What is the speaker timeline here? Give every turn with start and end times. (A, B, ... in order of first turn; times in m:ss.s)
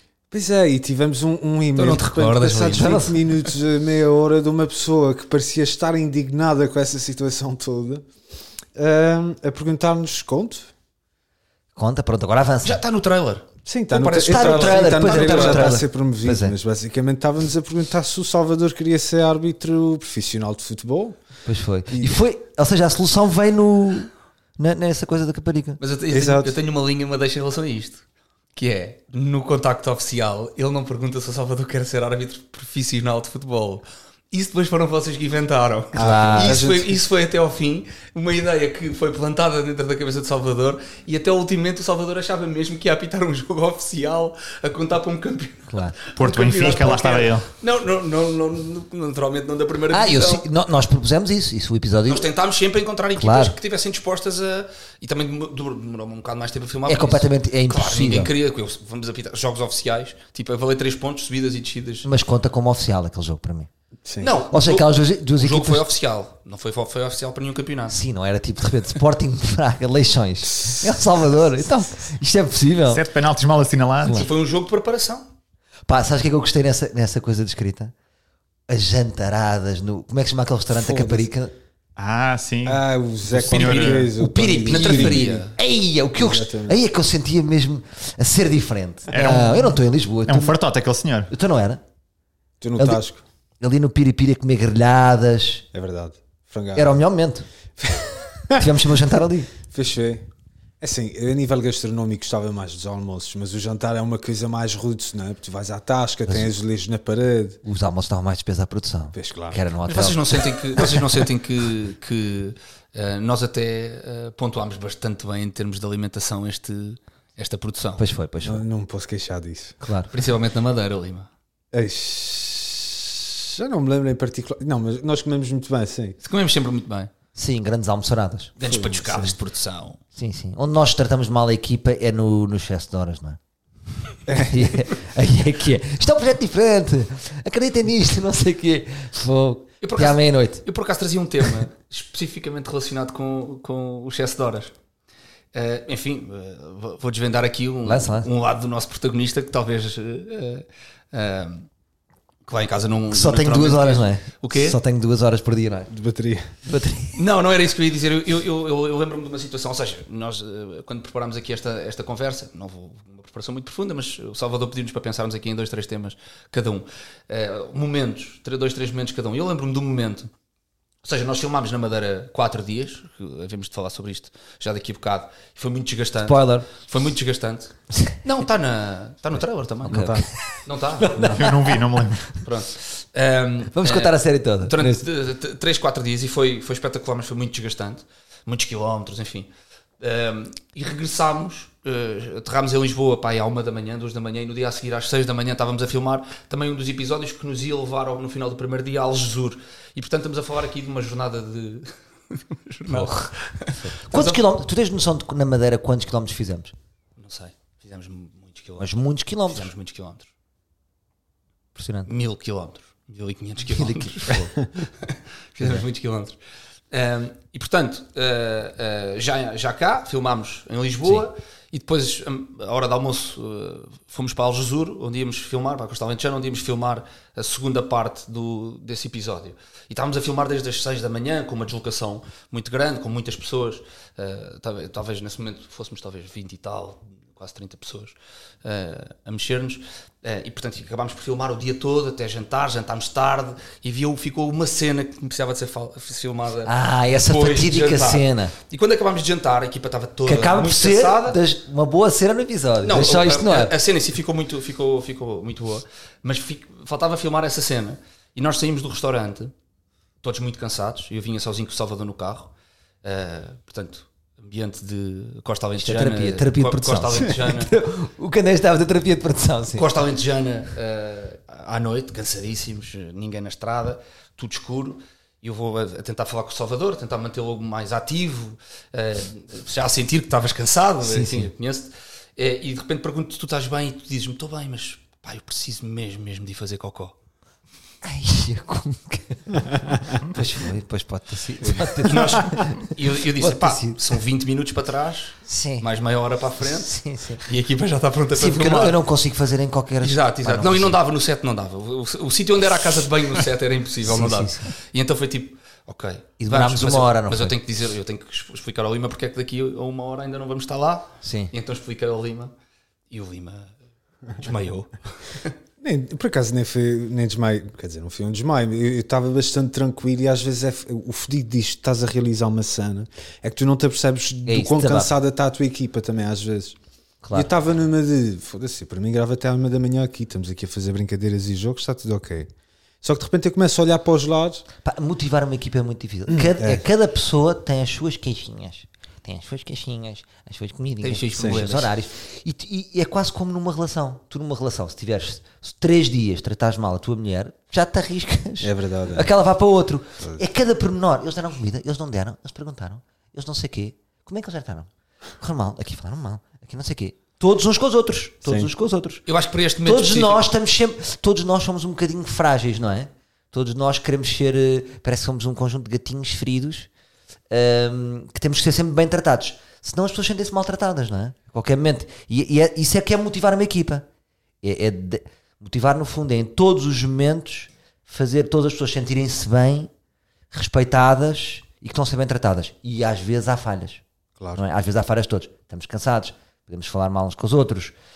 0:00.3-0:08.0 A
0:01.7-0:03.2 B
0:02.7-0:03.2 C
0:08.7-0:10.7 A
0:11.8-0:12.8 C
0:12.6-0:15.8 B
0:13.6-0:21.2 A
0:14.2-0:16.6 C
0:21.4-0:25.8 C
0:21.9-0:22.2 A
0:25.8-0:28.0 B
0:26.1-0:26.5 A
0:28.5-0:50.4 B
0:35.9-0:36.6 C
0:35.9-0:37.0 A
0:45.7-0:46.0 C
0:46.2-0:47.5 D
0:49.9-0:52.3 C
0:52.1-1:02.1 B
0:53.1-0:53.6 C
0:56.9-0:58.3 C
1:02.0-1:03.7 C
1:04.0-1:04.3 A
1:04.2-1:08.0 B
1:04.5-1:05.8 C
1:07.9-1:13.0 C
1:12.9-1:14.3 D
1:14.0-1:14.3 C
1:14.1-1:15.2 B
1:15.8-1:17.9 C
1:18.7-1:21.5 C
1:20.7-1:21.3 A
1:22.0-1:24.1 D
1:22.6-1:25.5 A
1:23.4-1:24.0 B
1:24.1-1:30.6 C
1:24.7-1:25.5 B
1:26.2-1:26.8 A
1:29.1-1:31.3 D
1:31.3-1:31.8 C
1:32.6-1:33.2 A
1:33.6-1:35.6 C
1:35.7-1:37.0 A
1:36.7-1:37.4 C
1:37.8-1:38.9 A
1:38.5-1:39.5 C
1:39.6-1:40.2 A
1:40.8-1:47.6 A
1:47.6-1:50.8 C
1:49.1-1:49.6 A
1:49.8-1:58.0 B
1:58.0-1:58.6 C
1:58.4-1:59.8 A
1:59.8-2:00.1 C
2:00.1-2:01.3 B
2:01.7-2:06.2 A
2:06.2-2:07.1 B
2:07.3-2:08.5 C
2:08.6-2:10.0 B
2:08.6-2:09.3 A
2:10.1-2:13.4 C
2:14.3-2:14.7 A
2:14.3-2:20.6 C
2:19.8-2:24.7 B
2:25.5-2:31.7 B
2:27.8-2:28.3 C
2:32.5-2:34.8 B
2:33.1-2:35.9 C
2:35.9-2:36.6 A
2:36.6-2:37.2 C
2:37.1-2:50.3 B
2:51.0-3:01.2 B
2:56.2-2:56.7 C
2:59.9-3:02.1 C
2:59.9-3:00.2 A
3:01.2-3:02.3 D
3:02.4-3:24.4 B
3:03.7-3:05.0 C
3:22.9-3:26.7 C
3:27.2-3:28.9 B
3:28.8-3:29.7 C
3:29.5-3:30.3 B
3:31.7-3:32.1 C
3:32.0-3:34.5 B
3:33.6-3:34.6 C
3:35.0-3:36.4 B
3:36.9-4:11.4 B
4:06.6-4:08.5 C
4:10.2-4:13.7 C
4:12.8-4:19.5 B
4:20.2-4:22.5 B
4:23.0-4:27.7 B
4:25.8-4:29.9 C
4:29.7-4:47.1 B
4:41.0-4:41.5 C
4:48.0-4:54.0 C
4:51.7-4:59.0 B
4:55.4-4:55.8 C
4:56.6-4:57.4 C
4:58.3-5:01.0 C
5:00.0-5:12.5 B
5:04.0-5:04.7 C
5:06.4-5:07.5 C
5:11.2-5:11.5 C
5:13.1-5:13.7 B
5:14.4-5:15.5 B
5:15.8-5:26.8 A
5:24.4-5:25.1 C
5:27.2-5:27.5 C
5:27.3-5:32.5 A
5:33.0-5:34.6 A
5:34.8-5:54.9 C
5:36.3-5:36.8 A
5:41.0-5:41.9 B
5:41.4-5:41.7 A
5:48.6-5:49.3 A
5:55.4-5:59.2 C
5:58.4-5:58.7 A
5:59.2-6:00.4 B
5:59.8-6:06.9 C
6:07.5-6:14.0 C
6:14.6-6:19.9 C
6:20.5-6:24.0 C
6:24.4-6:24.6 A
6:24.6-6:27.9 C